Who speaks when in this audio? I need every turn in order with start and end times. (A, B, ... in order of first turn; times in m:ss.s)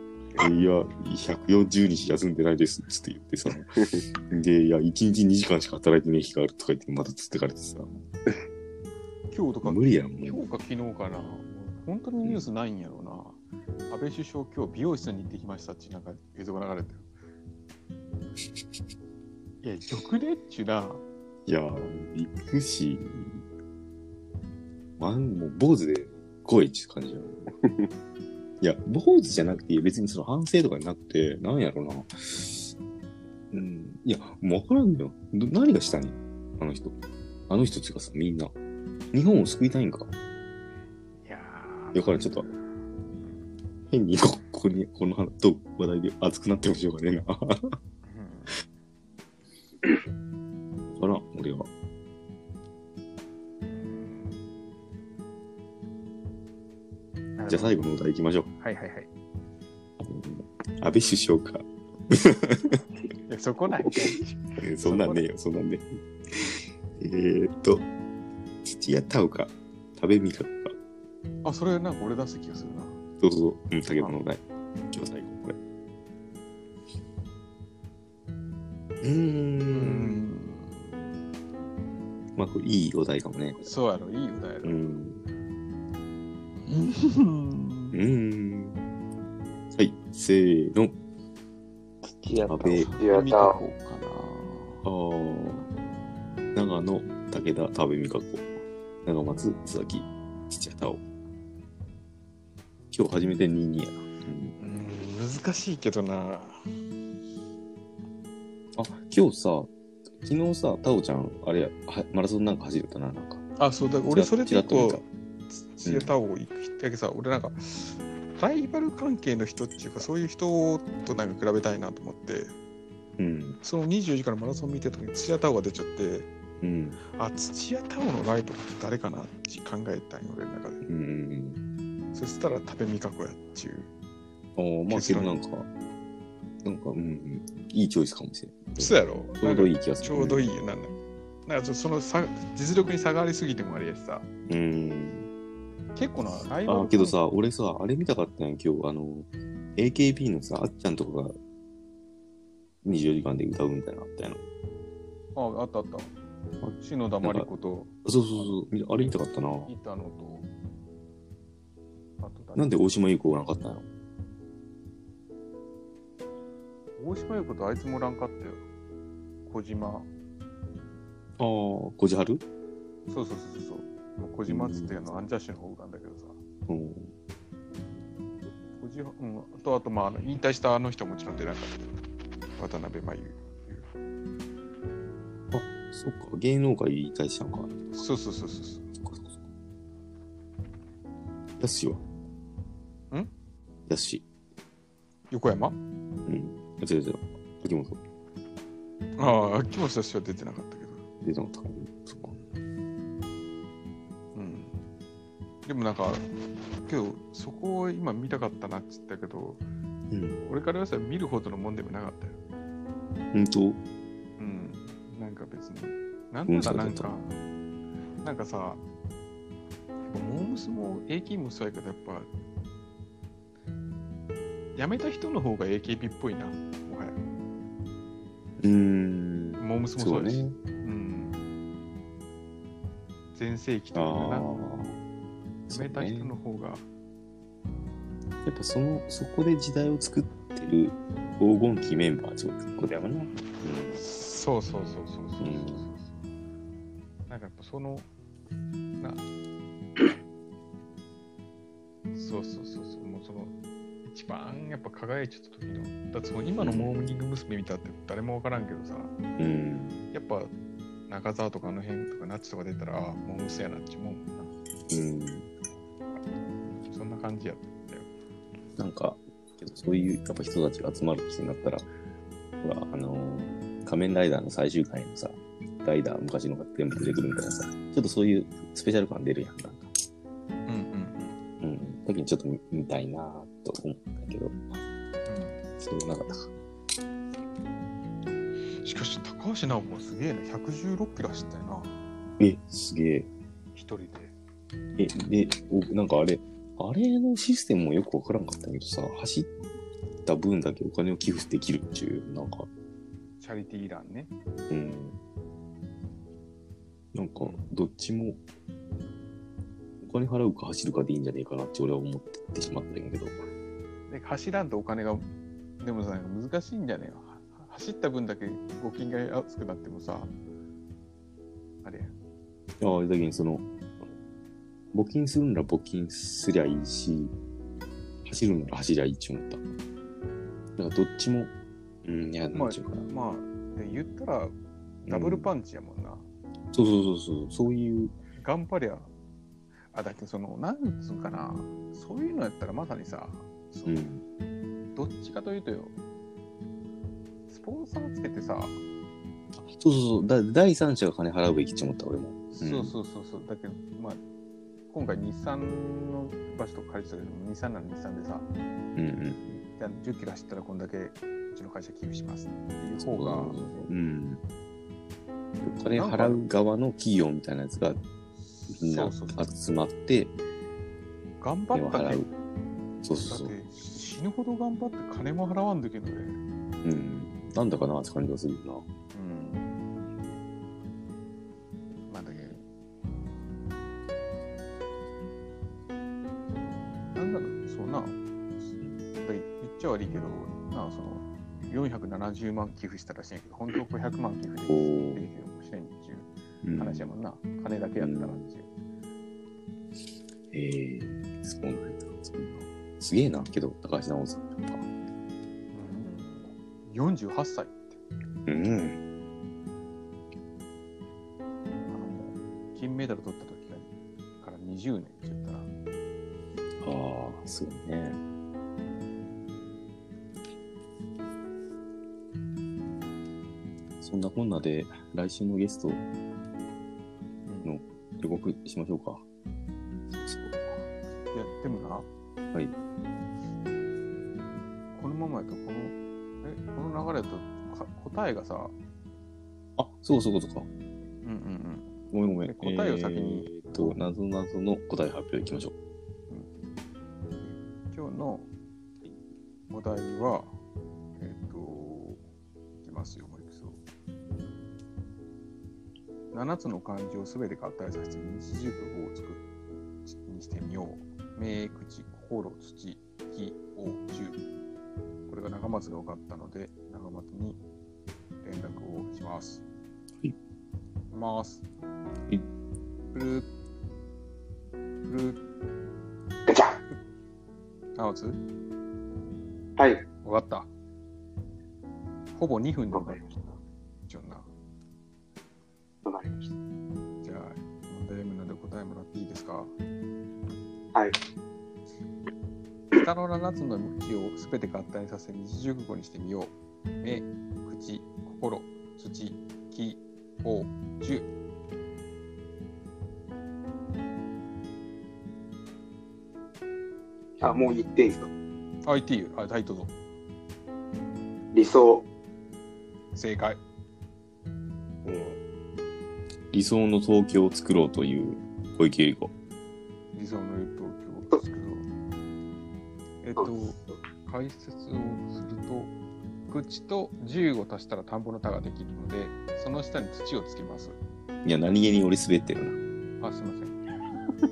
0:00.4-0:07.9 A
0:03.8-0:04.0 B
0:09.3-0:17.1 C
0:09.6-0:10.4 A
0:19.6-0:21.0 C
0:21.5-0:23.4 A
0:25.0-0:27.4 A
0:27.6-0:27.9 B
0:28.6-0:32.7 A
0:33.5-0:37.0 A
0:37.5-0:38.5 A
0:39.1-0:40.1 A
0:41.2-0:42.5 C
0:41.9-0:42.5 A
0:43.9-0:47.8 A
0:48.0-0:48.6 C
0:50.9-0:51.7 A
0:53.7-0:54.4 C
0:57.4-0:57.8 C
0:57.5-0:58.5 A
0:58.6-0:59.1 C
1:00.0-1:02.8 A
1:03.3-1:05.2 C
1:04.6-1:07.9 A
1:08.6-1:10.8 A
1:11.4-1:13.0 C
1:13.2-1:15.6 A
1:19.0-1:20.2 A
1:19.7-1:21.1 C
1:22.4-1:23.7 A
1:23.6-1:24.8 C
1:24.6-1:25.2 A
1:26.6-1:28.0 C
1:27.9-1:28.8 A
1:29.7-1:31.0 A
1:32.0-1:33.0 B
1:32.5-1:32.9 A
1:32.8-1:34.8 C
1:33.0-1:33.6 D
1:34.8-1:35.7 A
1:36.5-1:38.5 A
1:39.0-1:41.0 A
1:42.9-1:44.6 A
1:44.6-1:46.6 C
1:48.8-1:53.4 A
1:53.6-2:02.5 C
1:54.1-1:55.0 A
1:55.8-1:56.1 A
2:03.2-2:03.6 A
2:03.6-2:06.3 C
2:06.6-2:07.0 A
2:07.1-2:10.8 C
2:10.8-2:11.6 A
2:12.1-2:13.9 C
2:14.6-2:15.7 A
2:14.9-2:15.4 C
2:16.6-2:20.5 A
2:18.8-2:20.9 C
2:21.5-2:24.3 C
2:24.5-2:25.3 A
2:26.0-2:27.2 C
2:26.7-2:31.4 A
2:32.8-2:34.5 A
2:35.4-2:36.1 C
2:36.6-2:37.5 A
2:36.8-2:39.1 C
2:38.0-2:39.7 A
2:39.6-2:40.5 C
2:42.2-2:42.8 C
2:42.6-2:43.9 A
2:47.0-2:48.6 C
2:49.5-2:50.1 C
2:51.4-2:52.4 A
2:53.1-2:56.4 C
2:54.5-2:55.0 A
2:56.7-2:57.1 A
2:58.8-3:02.0 C
3:02.6-3:03.9 C
3:05.5-3:08.1 A
3:08.0-3:08.9 C
3:09.0-3:09.4 A
3:11.6-3:12.0 A
3:13.9-3:14.2 A
3:15.3-3:15.8 C
3:16.2-3:18.0 A
3:19.2-3:21.0 C
3:21.2-3:22.4 A
3:24.4-3:24.8 C
3:25.6-3:26.3 C
3:26.8-3:29.6 C
3:30.1-3:30.4 A
3:30.4-3:32.4 C
3:33.3-3:33.8 A
3:34.4-3:37.4 C
3:36.5-3:37.2 A
3:38.2-3:38.8 C
3:40.1-3:42.3 C
3:44.8-3:47.2 C
3:48.6-3:50.6 A
3:49.6-3:51.4 C
3:53.3-3:54.5 C
3:54.0-3:55.0 A
3:55.7-3:56.4 A
3:55.7-3:56.9 C
3:58.4-4:04.0 A
4:04.0-4:06.2 C
4:05.4-4:05.9 A
4:07.3-4:08.1 C
4:12.1-4:13.5 C
4:14.0-4:19.1 C
4:16.6-4:16.9 A
4:19.4-4:20.0 A
4:20.1-4:20.5 C
4:21.1-4:24.5 C
4:24.9-4:25.5 A
4:26.9-4:28.1 C
4:28.8-4:31.9 A
4:32.6-4:39.9 A
4:40.7-4:41.4 C
4:41.6-4:44.7 A
4:45.3-4:45.6 C
4:45.8-4:46.5 A
4:48.8-4:51.9 C
4:52.4-4:53.3 A
4:53.8-4:54.3 C
4:55.0-4:59.5 A
5:00.2-5:02.7 A
5:03.4-5:04.3 C
5:04.7-5:05.2 A
5:07.1-5:08.4 A
5:07.4-5:07.7 C
5:10.0-5:13.4 A
5:14.1-5:15.3 C
5:15.8-5:20.3 C
5:21.8-5:22.2 C
5:22.8-5:23.6 A
5:24.9-5:27.3 A
5:28.2-5:29.6 A
5:30.8-5:31.5 A
5:32.0-5:33.1 A
5:32.5-5:36.3 C
5:35.1-5:35.5 A
5:36.7-5:38.1 A
5:38.4-5:39.1 C
5:39.9-5:44.1 C
5:43.9-5:44.2 A
5:45.0-5:46.0 C
5:47.5-5:48.8 C
5:49.6-5:52.9 A
5:52.6-5:54.2 C
5:54.9-5:58.5 C
5:59.0-5:59.6 A
5:59.8-6:03.8 C
6:03.0-6:04.4 A
6:05.6-6:08.0 A
6:05.9-6:06.4 C
6:08.6-6:09.5 C
6:08.7-6:10.4 A
6:11.4-6:12.2 C
6:11.7-6:12.3 A
6:13.0-6:13.5 A
6:13.2-6:16.4 C
6:16.8-6:18.9 A
6:19.1-6:19.7 C
6:22.1-6:22.6 C
6:27.1-6:28.2 C
6:29.2-6:38.7 C
6:34.7-6:35.3 A
6:36.6-6:37.1 A
6:38.0-6:38.5 A
6:40.5-6:44.8 A
6:45.7-6:48.0 C
6:48.5-6:49.0 A
6:51.9-6:53.9 C
6:54.4-6:55.7 C
6:56.8-6:58.2 A
7:04.0-7:06.0 A
7:07.5-7:07.8 C
7:07.6-7:09.2 A
7:10.1-7:10.8 A
7:11.3-7:12.1 C
7:15.0-7:18.7 C
7:19.8-7:20.7 A
7:21.2-7:24.0 C
7:22.1-7:25.7 A
7:27.4-7:28.5 C
7:29.7-7:30.5 C
7:31.2-7:32.2 C
7:32.8-7:33.8 C
7:36.3-7:44.4 C
7:45.3-7:47.6 C
7:48.4-7:49.6 C
7:51.1-7:51.6 C
7:53.1-7:53.5 C
7:55.1-7:55.4 C
7:56.5-7:56.8 D
7:58.0-7:58.4 C
7:59.8-8:00.0 D
8:00.2-8:00.7 C
8:02.4-8:03.3 C
8:02.9-8:03.3 D
8:04.1-8:04.5 C
8:06.0-8:06.5 D
8:07.2-8:09.7 C
8:12.9-8:21.3 C
8:27.4-8:28.3 D
8:28.9-8:29.9 C
8:31.5-8:32.0 D
8:33.1-8:33.6 C
8:35.1-8:35.4 B
8:36.5-8:39.3 A
8:40.1-8:41.9 C
8:43.2-8:45.9 C
8:46.5-8:51.0 C
8:51.4-8:52.8 A
8:53.2-8:53.8 C